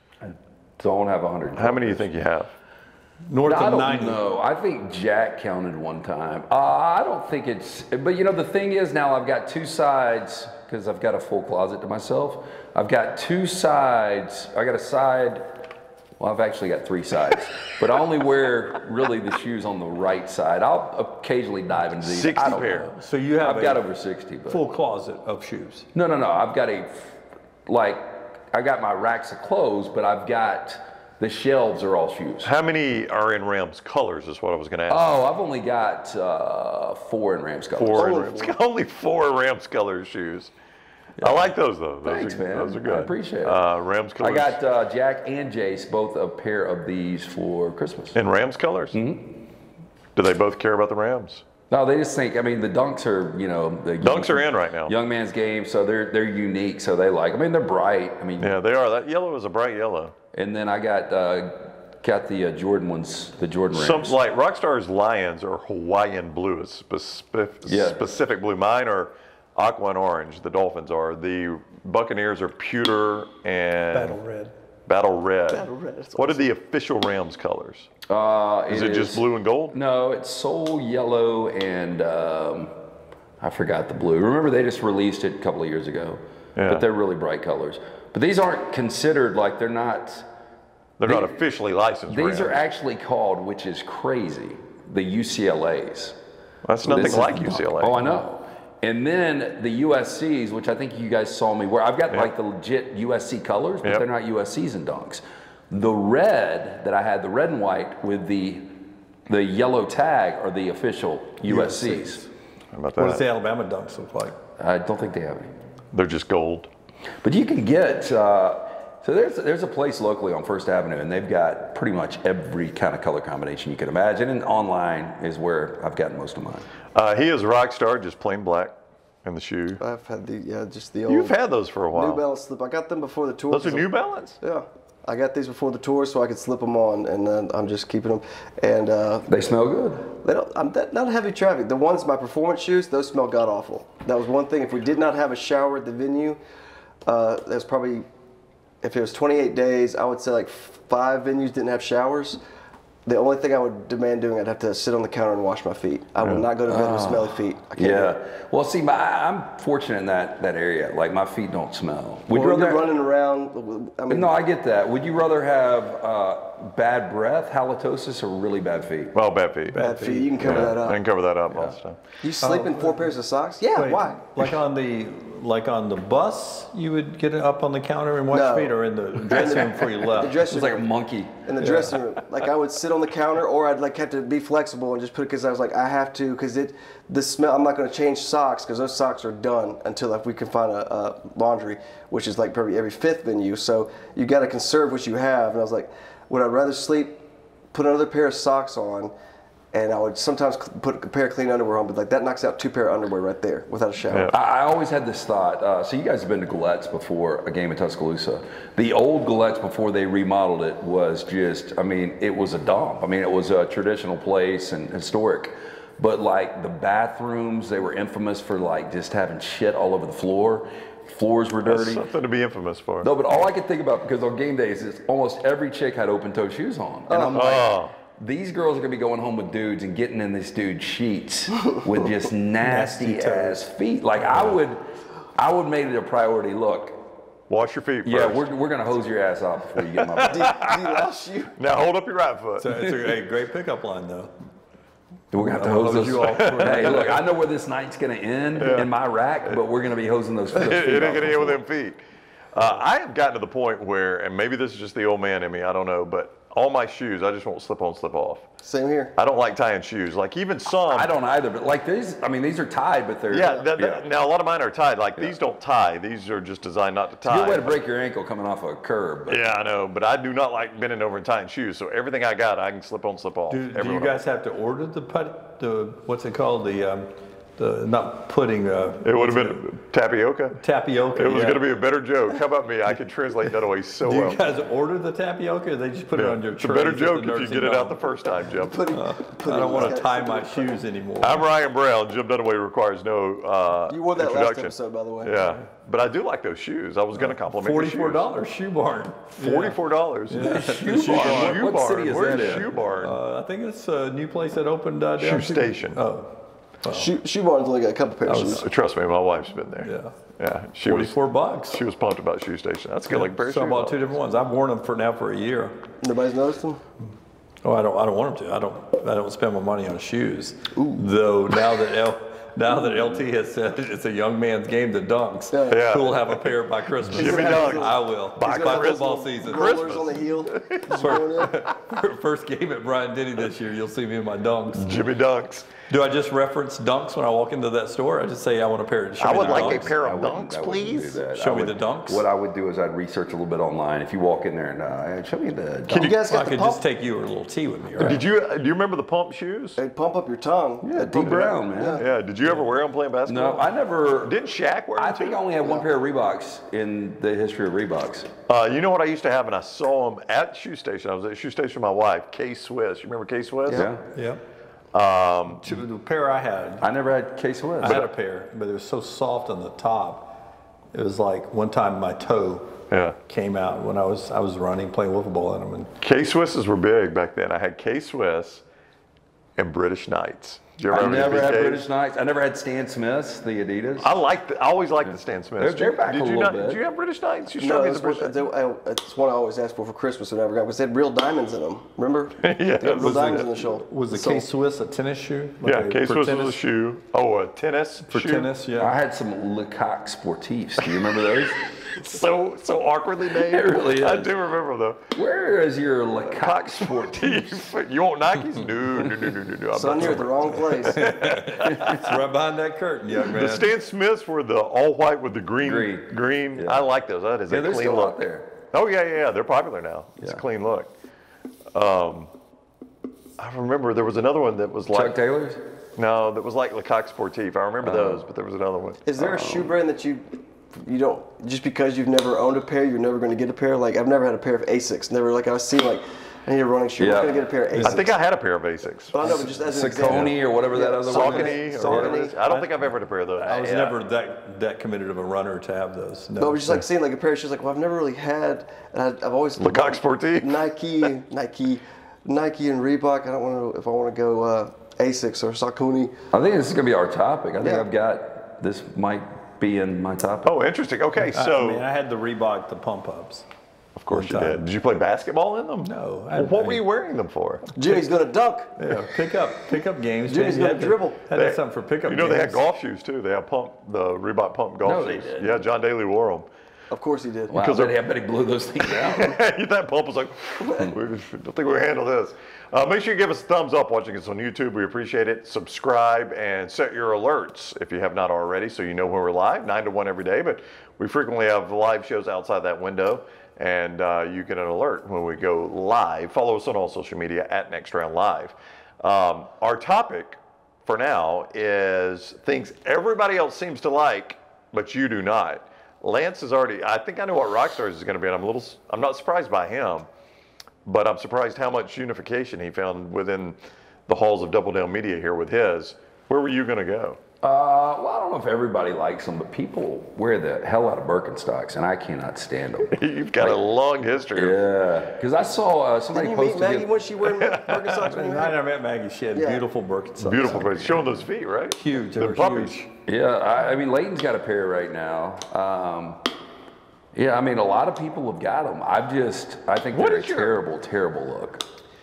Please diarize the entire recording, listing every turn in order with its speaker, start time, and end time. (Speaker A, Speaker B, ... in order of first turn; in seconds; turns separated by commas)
Speaker A: 0.2-2.1, Speaker B: 1.6-2.5, Speaker C: 3.3-4.2, Speaker A: 3.4-15.6, Speaker A: 16.2-24.6, Speaker B: 22.0-22.9, Speaker C: 22.9-23.8, Speaker C: 24.5-25.9, Speaker A: 25.9-32.5, Speaker B: 32.4-35.1, Speaker A: 34.9-38.3, Speaker B: 37.8-40.5, Speaker D: 38.0-38.6, Speaker B: 41.2-44.5, Speaker A: 42.0-43.6, Speaker A: 44.2-48.2, Speaker B: 48.1-49.0, Speaker A: 48.9-49.5, Speaker B: 50.1-51.5, Speaker A: 51.7-58.6, Speaker B: 54.0-55.0, Speaker B: 58.4-60.1, Speaker A: 60.3-64.2, Speaker B: 63.7-74.2, Speaker A: 67.7-68.0, Speaker C: 73.9-74.5, Speaker B: 74.8-77.9, Speaker D: 75.5-76.5, Speaker A: 78.1-82.8, Speaker B: 78.7-79.8, Speaker A: 83.4-90.3, Speaker B: 86.6-86.8, Speaker B: 91.0-92.6, Speaker A: 91.0-91.3, Speaker A: 92.1-96.2, Speaker B: 96.7-98.0, Speaker A: 96.8-112.2, Speaker C: 111.5-112.3, Speaker B: 112.7-113.2, Speaker C: 113.0-114.3, Speaker A: 114.6-115.5, Speaker B: 115.9-116.7, Speaker A: 117.2-126.7, Speaker B: 127.0-129.8, Speaker D: 129.8-131.3, Speaker B: 131.1-132.2, Speaker D: 131.9-139.3, Speaker B: 133.5-134.4, Speaker A: 139.3-140.1, Speaker D: 140.2-146.4, Speaker D: 147.1-148.1, Speaker D: 148.8-152.4, Speaker D: 153.1-158.1, Speaker B: 156.2-156.5, Speaker A: 156.7-162.9, Speaker D: 162.3-164.3, Speaker A: 164.1-169.2, Speaker B: 169.1-169.9, Speaker C: 169.7-170.7, Speaker D: 169.7-171.0, Speaker B: 170.4-172.0, Speaker A: 171.5-171.8, Speaker D: 172.2-174.2, Speaker C: 172.4-173.1, Speaker C: 173.8-180.5, Speaker D: 178.3-180.9, Speaker A: 180.4-181.6, Speaker D: 181.4-199.1, Speaker C: 181.6-182.0, Speaker D: 199.7-204.3, Speaker B: 204.1-204.3, Speaker A: 204.3-222.1, Speaker B: 221.7-223.2, Speaker A: 223.0-234.8, Speaker D: 227.1-227.4, Speaker B: 227.3-227.9, Speaker C: 232.6-233.7, Speaker A: 235.3-237.0, Speaker B: 237.5-238.5, Speaker A: 238.0-240.6, Speaker B: 239.9-241.0, Speaker D: 240.2-241.5, Speaker B: 241.6-243.2, Speaker C: 242.6-244.3, Speaker A: 245.3-251.6, Speaker C: 245.4-247.2, Speaker B: 246.2-247.2, Speaker B: 248.6-248.9, Speaker B: 250.5-252.0, Speaker B: 252.5-258.4, Speaker D: 258.6-259.1, Speaker B: 259.1-261.1, Speaker A: 260.9-264.1, Speaker B: 263.3-267.8, Speaker A: 267.2-269.5, Speaker B: 269.3-274.2, Speaker C: 273.5-279.6, Speaker B: 279.0-280.6, Speaker C: 280.6-281.6, Speaker B: 281.1-284.4, Speaker C: 284.0-288.0, Speaker B: 286.1-288.8, Speaker D: 288.6-290.8, Speaker C: 288.9-291.4, Speaker B: 291.2-298.3, Speaker D: 293.9-295.3, Speaker C: 295.4-295.6, Speaker C: 297.1-299.8, Speaker B: 299.4-303.2, Speaker C: 300.3-301.6, Speaker A: 300.4-302.8, Speaker C: 302.3-307.1, Speaker B: 305.2-306.0, Speaker D: 306.9-308.6, Speaker C: 308.2-308.6, Speaker B: 308.4-311.2, Speaker C: 309.8-310.2, Speaker C: 310.8-311.8, Speaker B: 311.7-314.1, Speaker C: 313.1-315.8, Speaker D: 316.0-316.8, Speaker C: 317.6-329.8, Speaker D: 320.8-321.0, Speaker D: 325.5-325.8, Speaker B: 325.7-326.6, Speaker B: 327.1-331.5, Speaker D: 327.1-331.6, Speaker C: 330.9-335.0, Speaker B: 334.7-335.7, Speaker C: 335.9-339.9, Speaker B: 339.2-341.2, Speaker A: 339.3-346.1, Speaker C: 341.3-342.3, Speaker B: 345.9-346.2, Speaker D: 345.9-346.8, Speaker C: 345.9-348.2, Speaker B: 348.0-349.8, Speaker D: 349.8-352.1, Speaker A: 350.8-352.0, Speaker B: 352.0-353.7, Speaker A: 353.2-354.4, Speaker B: 354.2-355.4, Speaker A: 354.9-358.3, Speaker D: 355.6-355.9, Speaker B: 358.5-363.9, Speaker A: 363.7-364.0, Speaker C: 364.1-364.4, Speaker B: 364.9-365.7, Speaker C: 365.5-366.9, Speaker A: 366.8-368.0, Speaker C: 367.8-370.4, Speaker B: 367.8-368.1, Speaker C: 370.9-375.9, Speaker B: 372.9-373.2, Speaker B: 376.0-378.6, Speaker B: 379.6-381.8, Speaker A: 380.9-384.1, Speaker B: 384.0-388.5, Speaker A: 385.6-386.8, Speaker D: 387.6-394.5, Speaker B: 392.4-393.4, Speaker C: 392.9-396.6, Speaker B: 395.6-398.6, Speaker C: 398.1-398.9, Speaker A: 398.8-401.6, Speaker B: 400.8-405.0, Speaker A: 403.3-404.3, Speaker A: 405.1-407.7, Speaker B: 406.3-411.9, Speaker D: 409.7-411.1, Speaker C: 410.0-413.8, Speaker A: 411.7-412.0, Speaker B: 413.2-420.9, Speaker A: 415.6-416.8, Speaker A: 417.5-418.5, Speaker B: 421.7-422.3, Speaker B: 423.4-425.2, Speaker A: 424.9-425.6, Speaker B: 425.9-429.0, Speaker A: 427.8-428.2, Speaker D: 429.1-438.1, Speaker A: 429.2-429.7, Speaker A: 437.0-437.4, Speaker C: 437.7-438.1, Speaker B: 437.8-439.4, Speaker D: 439.1-442.4, Speaker A: 439.6-441.6, Speaker B: 440.0-440.3, Speaker B: 441.1-444.0, Speaker C: 441.5-442.8, Speaker C: 443.4-446.8, Speaker D: 446.4-456.1, Speaker B: 449.6-450.6, Speaker A: 456.3-460.5, Speaker D: 457.6-457.9, Speaker B: 460.4-461.8, Speaker C: 461.2-463.4, Speaker B: 463.9-467.7, Speaker C: 464.1-464.6, Speaker C: 465.8-466.8, Speaker D: 467.8-468.8, Speaker C: 468.8-472.6, Speaker D: 470.3-471.2, Speaker B: 471.3-476.4, Speaker A: 474.8-475.6, Speaker D: 476.9-477.6, Speaker A: 477.5-479.4, Speaker B: 477.5-478.0, Speaker B: 478.8-510.1, Speaker B: 510.8-513.6, Speaker B: 514.1-517.2, Speaker A: 517.4-523.6, Speaker B: 522.9-524.6, Speaker A: 524.4-526.9, Speaker D: 526.1-528.6, Speaker B: 527.2-528.0, Speaker C: 528.0-531.2, Speaker D: 529.4-529.6, Speaker B: 530.2-532.8, Speaker C: 531.7-532.9, Speaker A: 533.1-536.3, Speaker A: 537.1-541.6, Speaker B: 539.9-540.6